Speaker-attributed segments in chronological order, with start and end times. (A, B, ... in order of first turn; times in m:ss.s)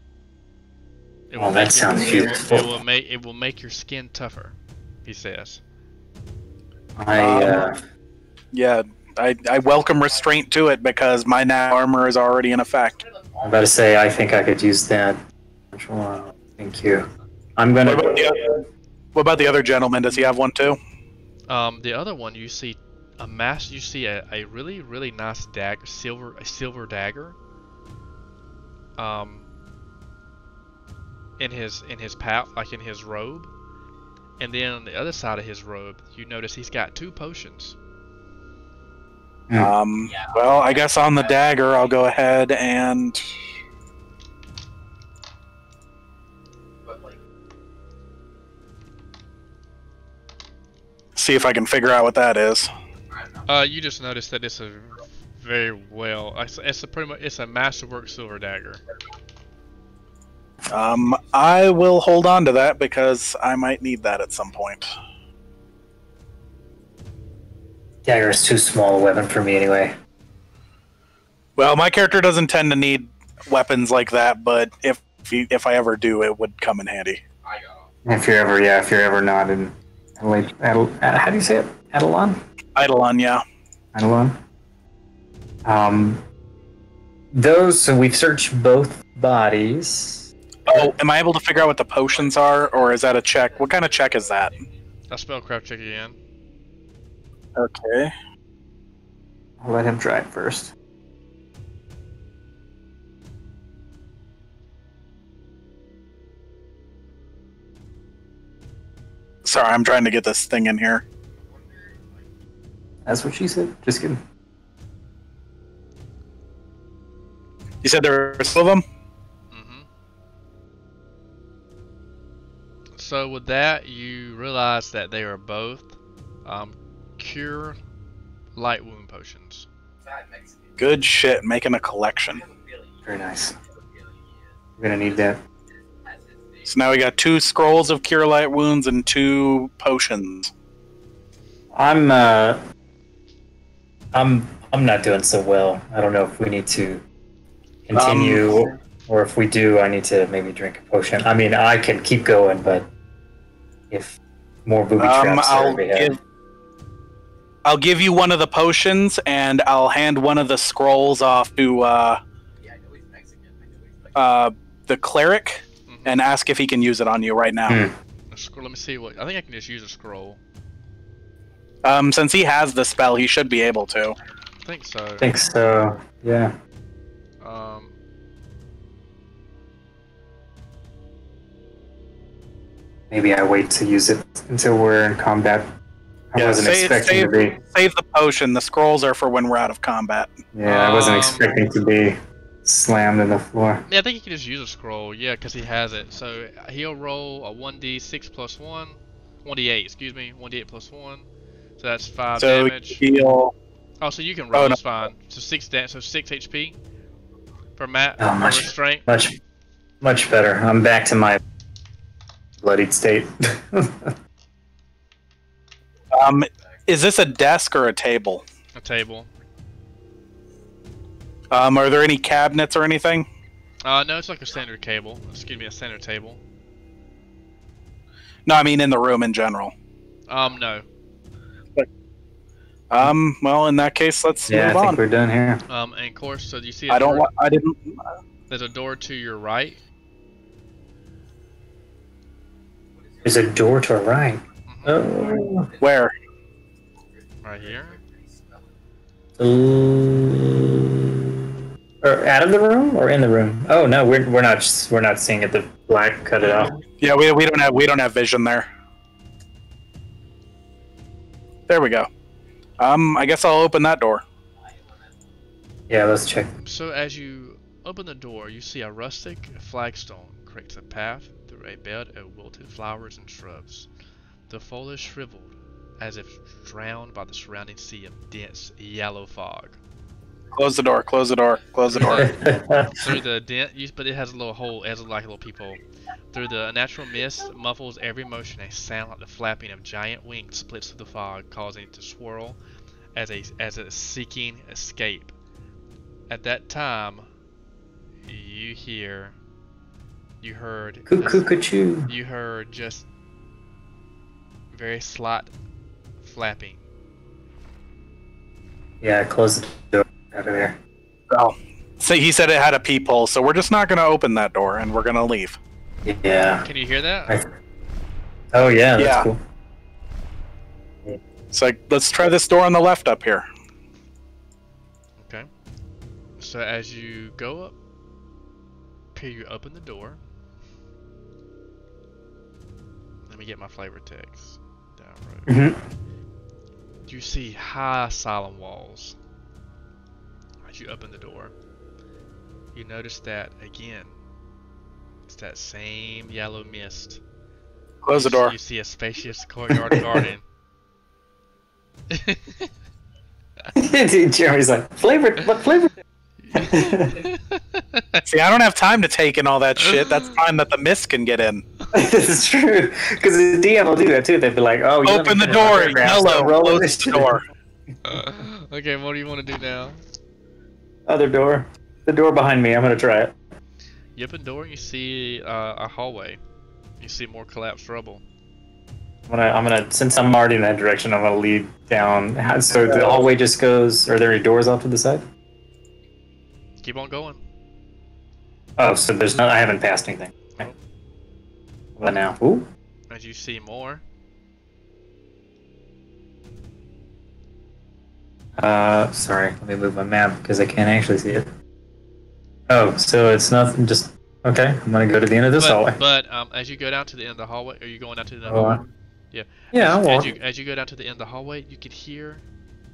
0:01.3-0:05.6 A
0:01.4-0:02.8 B
0:07.0-0:07.8 B
0:07.2-0:07.7 C
0:08.5-0:13.0 C
0:13.0-0:13.8 D
0:13.4-0:15.2 B
0:15.7-0:18.3 B
0:17.8-0:18.6 C
0:19.2-0:20.8 C
0:21.5-0:27.4 A
0:29.0-0:29.5 A
0:31.4-0:33.5 A
0:34.4-0:37.8 A
0:39.6-0:43.3 C
0:40.0-0:42.0 D
0:46.8-0:47.2 D
0:51.2-0:52.7 C
0:53.1-0:53.5 D
0:53.5-0:58.8 A
1:00.7-1:04.9 C
1:00.9-1:01.3 D
1:08.0-1:10.0 B
1:11.6-1:17.2 C
1:17.4-1:17.9 D
1:18.0-1:22.4 B
1:22.8-1:23.4 C
1:24.0-1:24.4 B
1:25.6-1:26.2 B
1:27.3-1:30.9 B
1:30.7-1:34.5 C
1:32.1-1:34.7 D
1:35.1-1:36.2 A
1:37.6-1:38.1 C
1:39.6-1:40.7 B
1:49.4-1:51.0 C
1:51.4-1:52.2 D
1:53.1-1:54.2 B
1:57.8-1:58.8 C
1:59.5-1:59.9 A
2:03.0-2:07.8 A
2:08.6-2:09.7 A
2:10.0-2:10.8 D
2:10.8-2:12.4 C
2:12.3-2:16.8 D
2:13.1-2:13.6 B
2:14.8-2:15.4 B
2:16.7-2:20.5 C
2:21.8-2:22.6 B
2:24.1-2:27.0 B
2:27.9-2:32.9 B
2:28.0-2:28.6 C
2:33.9-2:36.2 B
2:35.0-2:36.2 C
2:37.6-2:42.2 C
2:42.6-2:44.2 D
2:44.2-2:47.8 C
2:45.9-2:46.2 A
2:47.7-2:47.9 B
2:48.3-2:50.4 A
2:51.8-2:54.2 C
2:54.6-2:55.3 A
2:55.2-2:56.5 B
2:57.4-2:57.9 A
3:03.1-3:05.7 B
3:06.3-3:07.6 B
3:06.4-3:10.4 C
3:10.5-3:13.8 B
3:10.6-3:11.5 A
3:13.9-3:21.3 A
3:21.8-3:23.0 A
3:22.4-3:23.5 C
3:24.0-3:26.8 A
3:27.8-3:29.0 A
3:28.2-3:29.4 B
3:30.0-3:31.4 B
3:32.6-3:34.1 B
3:36.1-3:38.4 C
3:38.8-3:39.3 A
3:41.5-3:43.3 C
3:43.8-3:46.4 A
3:48.5-3:49.7 C
3:50.3-3:50.9 A
3:52.9-3:55.0 C
3:54.5-3:55.6 B
3:55.7-3:57.3 A
3:56.9-3:58.0 C
3:58.5-3:59.8 A
4:03.0-4:03.7 D
4:03.2-4:05.7 B
4:04.7-4:05.1 A
4:05.6-4:05.9 D
4:05.8-4:06.1 C
4:07.0-4:08.7 D
4:07.4-4:08.0 A
4:09.4-4:11.3 B
4:12.0-4:16.8 B
4:17.0-4:18.7 C
4:21.7-4:22.1 C
4:22.8-4:24.2 C
4:24.6-4:25.1 D
4:25.9-4:26.5 B
4:26.6-4:33.9 A
4:34.5-4:39.8 A
4:40.6-4:42.3 C
4:41.9-4:42.4 A
4:42.2-4:42.9 B
4:43.0-4:45.8 A
4:46.3-4:52.6 A
4:53.2-4:55.3 A
4:56.3-4:57.3 A
4:58.3-4:59.4 A
5:00.4-5:01.5 A
5:01.1-5:02.1 B
5:02.1-5:03.1 A
5:04.7-5:05.5 A
5:06.2-5:06.8 A
5:09.0-5:10.8 B
5:11.3-5:15.6 C
5:16.0-5:16.7 B
5:16.6-5:17.4 A
5:18.5-5:19.4 B
5:19.0-5:19.3 C
5:21.5-5:23.5 C
5:25.2-5:25.5 A
5:26.4-5:27.8 A
5:29.2-5:30.2 A
5:33.3-5:35.5 A
5:35.5-5:35.8 B
5:37.1-5:39.2 A
5:40.7-5:41.5 A
5:42.8-5:44.2 A
5:45.3-5:47.2 A
5:48.0-5:48.6 C
5:48.1-5:50.4 A
5:49.7-5:50.3 B
5:52.1-5:52.7 A
5:53.7-5:55.9 B
5:56.4-5:58.2 A
5:56.6-5:57.3 B
5:58.2-6:01.6 C
5:59.8-6:00.4 A
6:01.9-6:07.4 B
6:05.0-6:07.4 C
6:08.0-6:10.0 A
6:11.1-6:13.4 B
6:14.2-6:16.4 A
6:17.0-6:18.2 A
6:19.3-6:25.2 B
6:26.8-6:27.4 A
6:28.8-6:30.7 B
6:32.0-6:32.7 B
6:33.1-6:34.0 A
6:38.6-6:41.5 B
6:42.7-6:46.0 B
6:45.6-6:52.4 A
6:48.5-6:48.9 B
6:49.7-6:50.3 B